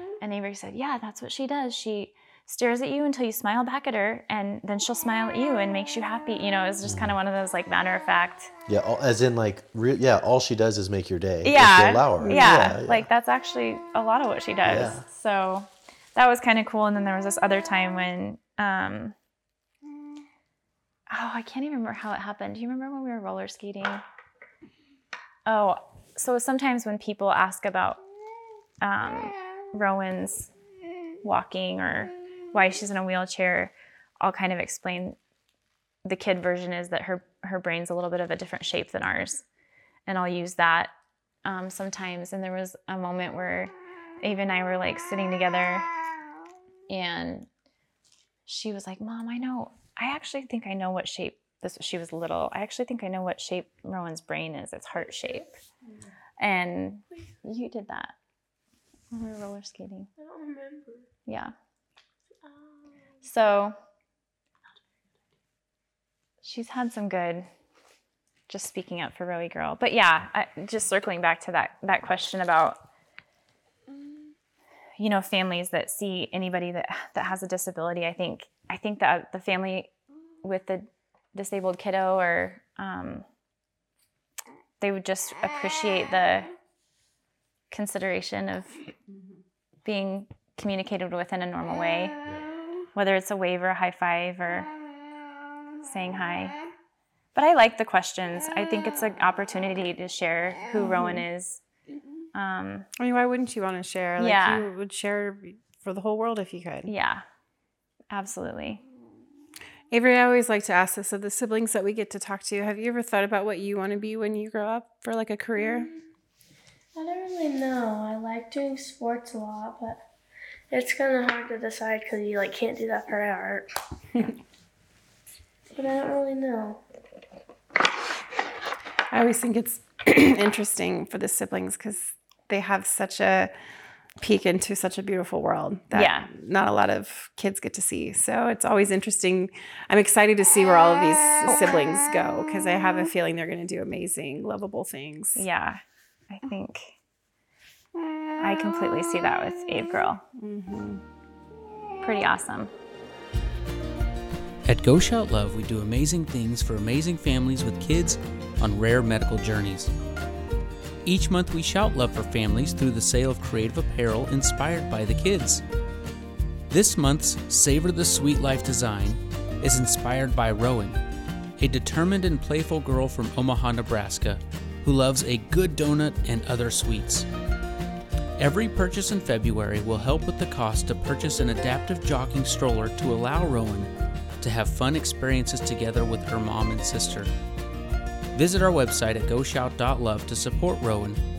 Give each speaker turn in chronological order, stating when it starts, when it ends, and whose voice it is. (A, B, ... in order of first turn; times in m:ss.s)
0:00.2-0:08.5 A
0:06.8-0:07.1 B
0:08.7-0:13.1 B
0:11.4-0:19.2 A
0:12.2-0:12.6 C
0:14.6-0:15.0 B
0:21.1-0:24.0 A
0:25.5-0:28.0 A
0:28.8-0:30.5 A
0:31.2-0:35.2 A
0:36.0-0:39.4 A
0:40.1-0:40.9 A
0:41.4-0:45.9 A
0:46.9-0:47.5 A
0:48.5-0:55.5 A
0:55.0-0:55.5 D
0:56.4-0:58.2 A
0:59.1-1:00.1 A
1:00.2-1:01.1 D
1:01.3-1:01.5 A
1:02.4-1:03.2 D
1:03.2-1:03.8 A
1:06.4-1:07.5 A
1:08.5-1:12.9 A
1:15.0-1:19.9 A
1:20.4-1:23.3 A
1:24.8-1:26.5 A
1:27.7-1:28.8 A
1:29.8-1:32.2 A
1:32.9-1:34.7 A
1:35.8-1:36.6 A
1:37.4-1:41.6 A
1:40.8-1:41.2 C
1:42.3-1:42.9 A
1:43.0-1:46.9 C
1:44.2-1:44.7 A
1:46.8-1:47.2 A
1:48.1-1:48.8 A
1:49.9-1:55.9 C
1:55.6-1:56.0 D
1:57.0-2:00.0 D
2:00.7-2:03.7 D
2:05.8-2:06.8 D
2:09.1-2:13.5 C
2:14.2-2:25.4 C
2:15.9-2:16.3 A
2:21.5-2:21.8 A
2:25.4-2:27.0 A
2:28.4-2:30.2 A
2:30.4-2:31.0 C
2:32.0-2:32.7 A
2:34.6-2:39.9 E
2:41.0-2:45.6 E
2:46.7-2:51.0 E
2:51.6-2:57.3 E
2:58.4-3:07.3 E
3:08.3-3:11.2 E